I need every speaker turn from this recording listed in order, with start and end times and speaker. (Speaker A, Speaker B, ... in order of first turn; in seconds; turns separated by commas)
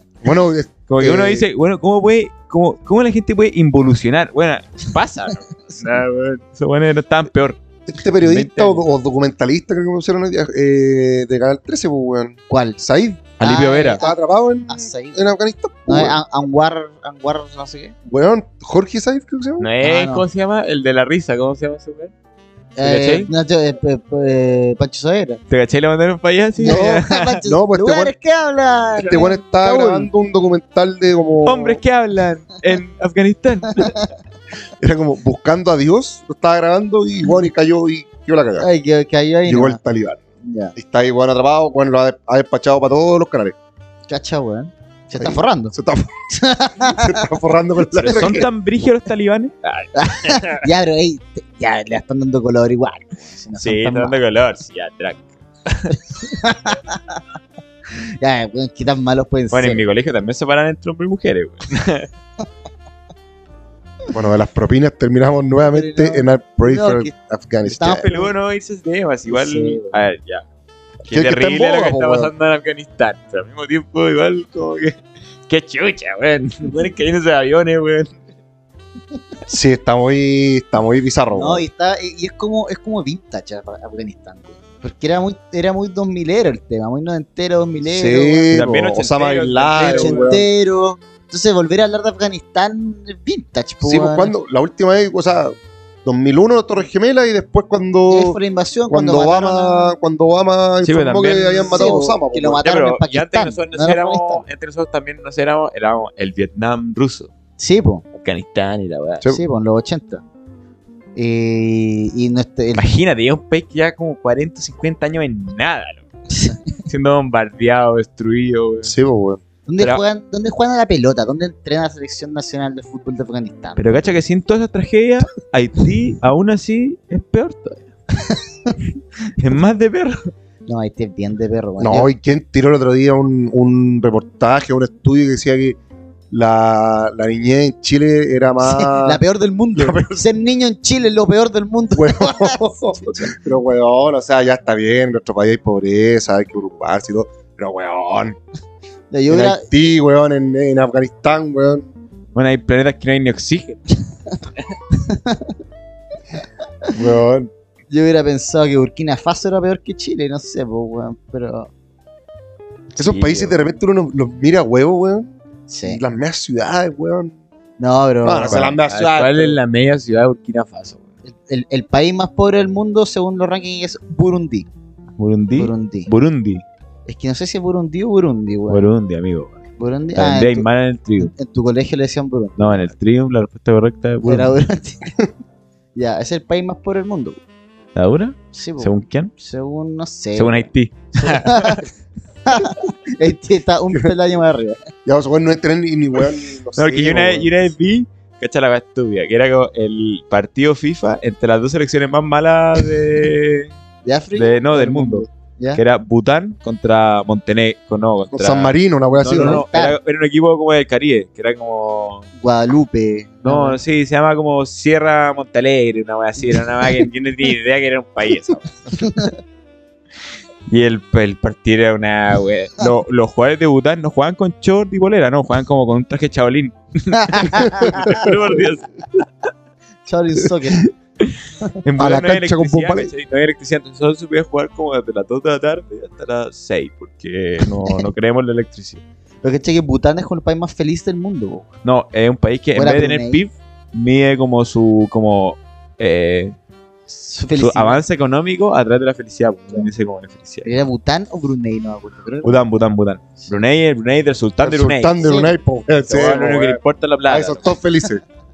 Speaker A: 0.2-1.4, Speaker B: 0.9-7.6, Speaker A: 7.8-13.4, Speaker B: 8.2-8.8, Speaker C: 12.5-12.8, Speaker B: 13.4-14.0, Speaker C: 13.4-14.1, Speaker A: 13.9-16.2, Speaker C: 14.7-15.2, Speaker C: 15.8-17.9, Speaker A: 18.1-19.7, Speaker B: 19.6-22.1, Speaker C: 19.8-20.2, Speaker C: 22.8-25.4, Speaker B: 22.8-23.3, Speaker B: 25.5-27.4, Speaker C: 26.6-30.1, Speaker A: 26.6-28.1, Speaker A: 29.0-31.8, Speaker B: 31.4-34.0, Speaker A: 34.8-38.7, Speaker C: 38.6-39.8, Speaker A: 39.5-40.2, Speaker C: 40.4-40.7, Speaker A: 40.7-43.5, Speaker C: 44.1-45.7, Speaker A: 45.2-46.1, Speaker C: 46.3-47.3, Speaker A: 46.8-48.5, Speaker B: 48.0-50.6, Speaker C: 48.0-48.4, Speaker C: 50.0-54.2, Speaker B: 53.6-56.0, Speaker C: 56.2-57.2, Speaker C: 57.9-59.8, Speaker B: 59.5-62.1, Speaker A: 64.1-68.1, Speaker C: 65.6-67.1, Speaker B: 67.7-70.4, Speaker C: 67.8-68.3, Speaker C: 69.3-69.9, Speaker B: 71.0-78.2, Speaker A: 71.1-72.3, Speaker A: 79.5-81.6, Speaker C: 81.3-88.5, Speaker A: 87.9-90.4, Speaker B: 88.5-90.4, Speaker C: 89.8-94.3, Speaker A: 93.8-98.4, Speaker C: 98.1-99.9, Speaker A: 98.9-102.6, Speaker B: 100.8-102.0, Speaker C: 101.7-104.4, Speaker B: 102.6-107.3, Speaker C: 107.6-108.0, Speaker B: 108.1-109.3, Speaker C: 109.3-110.2, Speaker C: 111.1-112.9, Speaker B: 112.7-116.1, Speaker C: 116.3-116.6, Speaker B: 116.8-118.9, Speaker A: 118.8-119.4, Speaker C: 119.7-124.0, Speaker B: 123.8-127.9, Speaker C: 128.3-128.7, Speaker B: 129.4-130.3, Speaker C: 130.7-132.1, Speaker A: 131.8-135.8, Speaker A: 136.3-139.2, Speaker C: 138.6-143.3, Speaker A: 139.7-140.0, Speaker A: 141.9-148.4, Speaker C: 149.1-149.7, Speaker A: 149.3-151.9, Speaker B: 152.3-154.0, Speaker C: 155.0-155.5, Speaker A: 156.9-157.5, Speaker C: 157.9-161.7, Speaker B: 162.9-163.6, Speaker A: 163.0-165.3, Speaker C: 165.7-166.0, Speaker A: 165.8-167.3, Speaker C: 167.8-168.7, Speaker A: 168.2-169.6, Speaker B: 168.5-171.0, Speaker C: 171.2-174.7, Speaker B: 175.2-176.6, Speaker C: 175.6-176.1, Speaker C: 177.1-178.8, Speaker B: 178.7-179.6, Speaker C: 179.8-182.9, Speaker B: 180.1-181.3, Speaker B: 182.6-184.6, Speaker C: 184.2-185.1, Speaker C: 185.9-187.4, Speaker B: 187.9-189.3, Speaker C: 188.5-191.9, Speaker B: 190.3-191.8, Speaker C: 192.4-194.8, Speaker A: 195.1-197.5, Speaker B: 196.8-203.7, Speaker C: 204.0-205.8, Speaker B: 204.3-212.3, Speaker A: 208.3-209.6, Speaker C: 209.2-210.0, Speaker C: 212.4-213.8, Speaker B: 213.4-219.3, Speaker C: 219.0-219.3, Speaker B: 220.7-229.2, Speaker C: 227.2-228.2, Speaker A: 227.8-228.3, Speaker C: 230.1-230.8, Speaker B: 231.2-239.0, Speaker A: 231.9-233.1, Speaker C: 239.4-241.7, Speaker B: 241.8-246.5, Speaker C: 242.7-243.4, Speaker C: 247.1-248.0, Speaker B: 247.5-250.7, Speaker C: 250.6-252.6, Speaker B: 252.4-255.4, Speaker A: 254.6-258.2, Speaker C: 255.2-255.5, Speaker B: 256.1-257.7